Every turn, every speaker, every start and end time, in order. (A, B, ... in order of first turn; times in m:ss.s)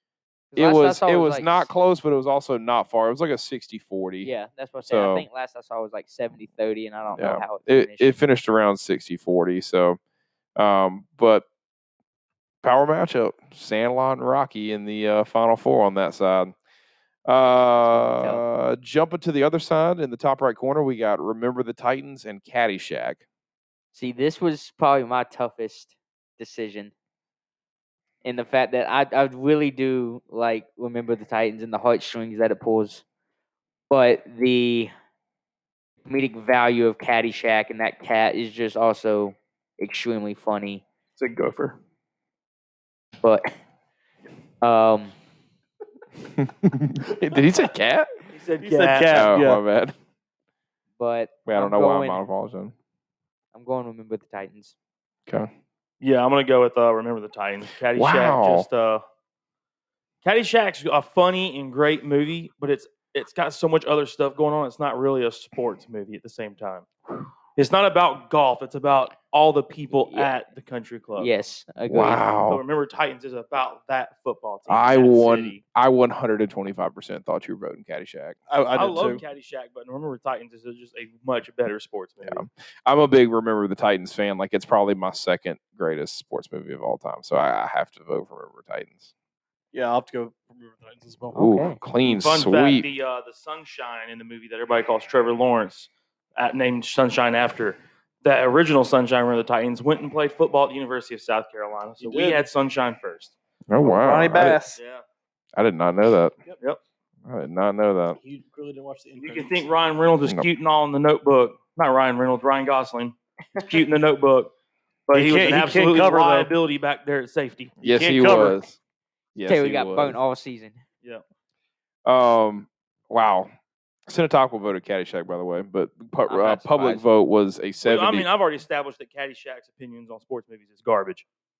0:00.5-0:01.7 A
0:00.6-0:04.3 B
0:04.2-0:08.1 A
0:04.9-0:05.2 B
0:07.2-0:10.0 B
0:10.6-0:11.4 B
0:12.6-0:16.5 B
0:17.2-0:23.2 B
0:17.7-0:18.4 A
0:23.9-0:26.9 A
0:28.2-0:33.0 A
0:33.9-0:34.9 A
0:36.0-0:40.8 A
0:41.2-0:41.7 C
0:43.2-0:43.5 A
0:44.6-0:45.1 A
0:46.3-0:48.1 B
0:48.3-0:49.4 C
0:48.6-0:49.6 D
0:49.1-0:49.9 B
0:51.0-0:52.2 A
0:51.4-0:52.7 B
0:53.5-0:54.7 A
0:56.0-0:59.0 C
0:57.9-0:58.7 B
1:00.2-1:06.9 C
1:07.5-1:11.3 C
1:09.9-1:10.3 A
1:11.2-1:12.2 A
1:11.9-1:12.6 B
1:12.5-1:15.6 C
1:14.7-1:18.4 B
1:18.5-1:19.2 D
1:18.7-1:22.4 C
1:22.2-1:29.1 B
1:29.7-1:31.4 D
1:31.3-1:31.8 A
1:31.3-1:32.9 B
1:32.0-1:43.4 C
1:42.0-1:42.4 D
1:43.7-1:44.6 B
1:43.8-1:44.8 D
1:44.7-1:45.0 C
1:45.6-1:46.3 B
1:47.2-1:48.2 B
1:48.2-1:49.6 D
1:49.2-1:54.5 C
1:55.1-1:57.8 C
1:55.1-1:56.5 D
1:57.8-1:58.8 B
1:57.8-1:58.6 D
1:59.3-2:00.2 B
1:59.4-2:00.8 A
2:02.0-2:03.5 B
2:04.1-2:08.3 B
2:06.3-2:07.0 A
2:07.8-2:11.2 C